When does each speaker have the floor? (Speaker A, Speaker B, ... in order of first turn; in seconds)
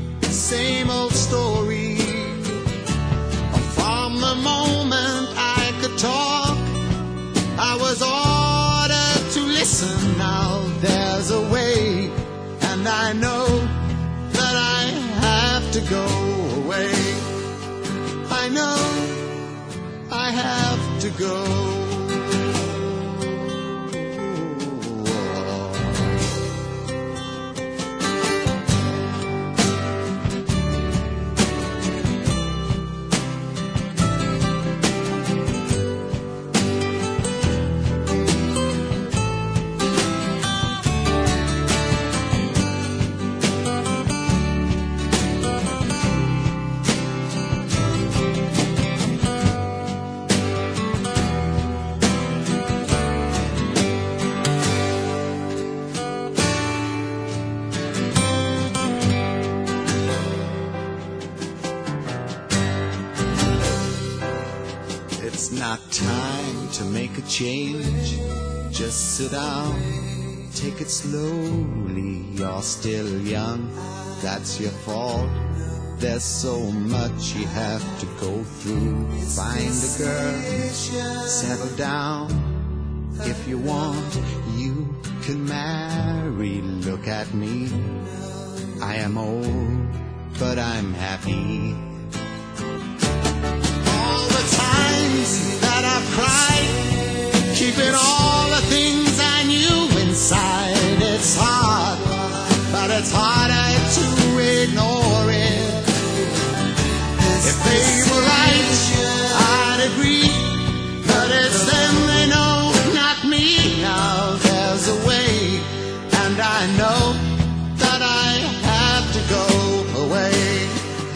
Speaker A: 0.2-2.6, 3.5-6.7, 7.5-17.3, 18.2-19.5, 20.1-26.2, 65.2-88.1, 88.8-92.0, 93.8-106.2, 107.2-120.9